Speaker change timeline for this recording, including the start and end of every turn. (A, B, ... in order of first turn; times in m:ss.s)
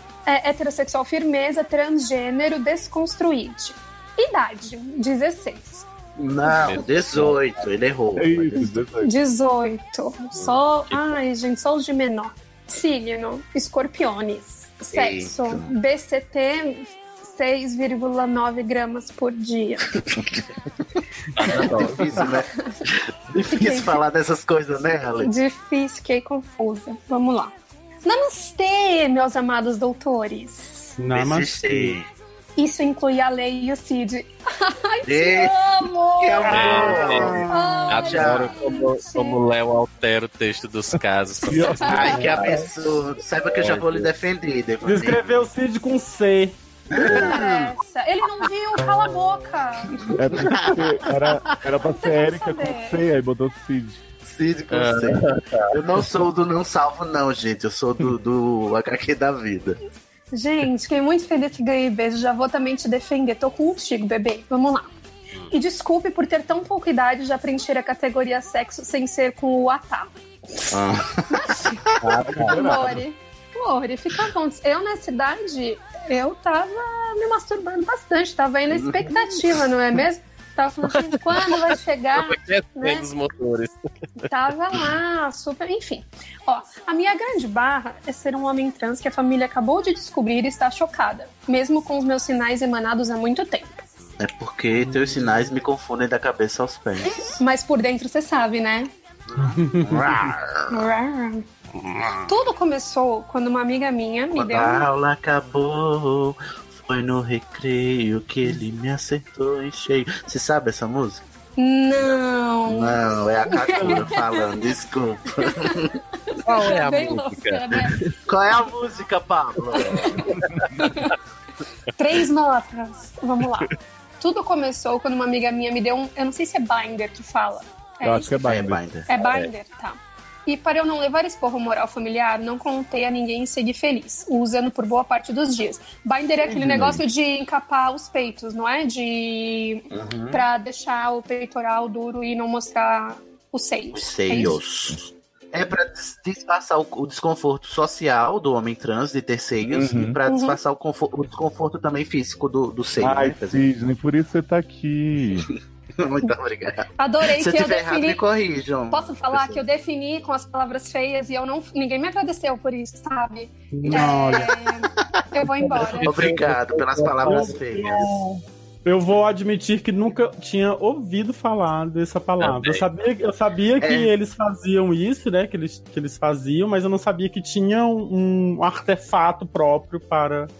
0:00.2-0:05.9 A
0:06.2-0:08.6 B
0:06.6-0:07.4 C
0:08.2-0:09.1 D
0:08.6-0:20.0 A
0:10.4-0:11.2 C
0:14.9-0:15.7 B
0:20.0-0:20.3 B
0:21.4-0:22.1 C
0:21.4-0:25.3 B
0:23.5-0:24.0 A
0:25.2-0:27.5 A
0:28.0-0:31.0 A
0:31.0-0:32.0 E
0:31.1-0:32.1 B
0:32.6-0:39.4 A
0:35.0-0:35.6 B
0:36.1-0:38.6 B
0:36.5-0:37.9 E
0:36.5-0:37.3 C
0:37.9-0:42.5 C
0:41.4-0:42.3 D
0:41.8-0:45.5 B
0:41.9-0:42.2 A
0:42.1-0:42.7 E
0:43.6-0:44.1 C
0:44.8-0:46.6 E
0:46.9-0:47.7 B
0:47.0-0:50.0 A
0:50.0-0:51.0 B
0:50.1-0:54.0 D
0:51.9-0:53.0 A
0:54.2-0:59.8 B
0:54.7-0:55.6 C
1:00.3-1:04.9 A
1:05.5-1:10.7 A
1:10.7-1:12.6 B
1:11.3-1:23.1 A
1:12.2-1:13.0 D
1:18.7-1:19.1 B
1:20.9-1:23.8 C
1:24.2-1:33.8 A
1:34.2-1:37.4 B
1:34.8-1:35.3 E
1:37.4-1:38.9 A
1:39.3-1:40.9 B
1:39.4-1:40.3 E
1:40.7-1:41.4 A
1:41.7-1:42.2 B
1:42.2-1:44.9 A
1:44.3-1:51.2 B
1:51.6-1:54.5 A
1:52.7-1:56.0 B
1:55.4-1:58.0 A
1:56.4-1:58.1 C
1:58.3-2:00.2 B
1:59.7-2:01.1 A
2:02.0-2:08.5 A
2:08.0-2:08.8 D
2:08.4-2:09.4 B
2:09.1-2:24.6 A
2:16.4-2:17.0 B
2:19.9-2:20.4 B
2:23.9-2:33.6 B
2:29.6-2:30.2 D
2:30.3-2:30.6 A
2:33.0-2:35.5 D
2:36.0-2:39.6 B
2:37.0-2:38.2 A
2:38.9-2:46.2 A
2:43.7-2:44.5 E
2:43.8-2:44.7 B
2:46.0-2:48.2 B
2:46.0-2:47.6 C
2:47.2-3:00.5 E
2:52.4-2:52.8 C
2:53.8-2:54.1 B